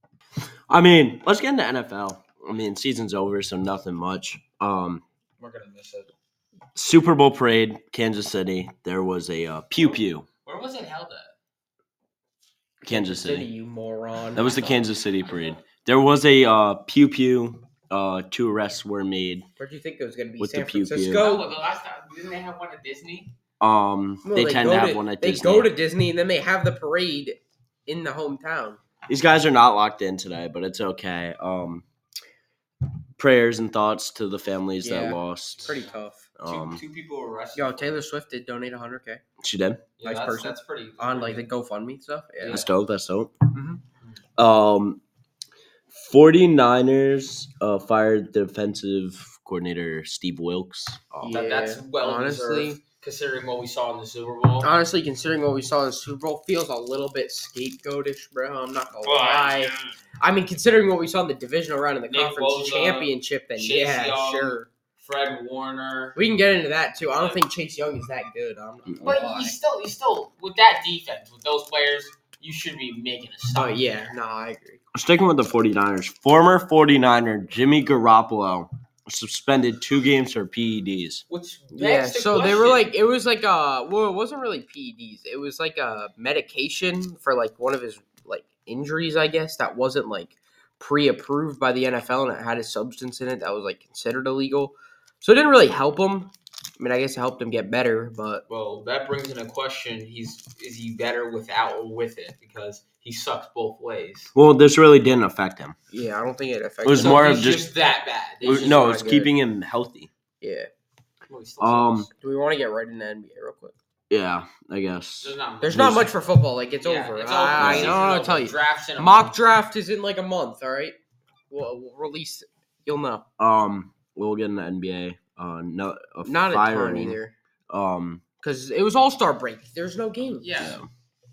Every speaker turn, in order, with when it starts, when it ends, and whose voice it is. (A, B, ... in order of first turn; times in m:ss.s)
0:00.7-0:05.0 A
0:05.4-0:06.1 B
0:06.8-0:10.3 A
0:09.8-0:11.3 B
0:12.8-0:13.5 A
0:12.9-0:14.8 C
0:14.4-0:19.5 A
0:14.5-0:15.6 B
0:19.6-0:21.5 C
0:20.4-0:21.2 A
0:21.1-0:23.3 B
0:23.6-0:25.7 A
0:24.2-0:28.8 C
0:29.1-0:31.8 A
0:33.2-0:35.7 A
0:34.8-0:36.3 C
0:35.6-0:35.9 B
0:36.4-0:36.8 A
0:36.4-0:37.7 B
0:37.6-0:39.2 C
0:39.4-0:39.8 A
0:40.0-0:41.4 B
0:40.0-0:42.7 C
0:42.4-0:42.7 B
0:42.5-0:43.4 A
0:43.5-0:43.8 C
0:44.4-0:45.0 A
0:45.9-0:51.4 A
0:51.2-0:52.8 C
0:51.3-0:54.7 B
0:54.6-1:04.7 C
0:59.0-0:59.9 B
1:02.1-1:06.2 B
1:06.2-1:09.6 C
1:09.0-1:13.8 B
1:13.5-1:14.8 C
1:14.9-1:21.2 A
1:21.3-1:22.9 B
1:21.7-1:38.4 C
1:38.5-1:44.3 B
1:44.4-1:45.8 A
1:45.9-1:47.3 C
1:46.8-1:47.6 A
1:46.9-1:48.8 B
1:48.4-1:49.3 C
1:48.4-1:50.1 A
1:50.4-1:50.7 C
1:51.3-1:52.1 B
1:51.6-1:52.1 A
1:52.2-1:53.8 C
1:54.1-1:56.1 A
1:55.2-1:56.1 B
1:55.6-2:01.0 C
1:56.8-1:59.3 B
1:57.6-1:58.0 A
2:01.5-2:03.2 C
2:03.4-2:07.2 A
2:06.2-2:07.3 C
2:07.7-2:08.2 A
2:08.4-2:10.6 C
2:10.4-2:10.8 B
2:10.6-2:10.9 A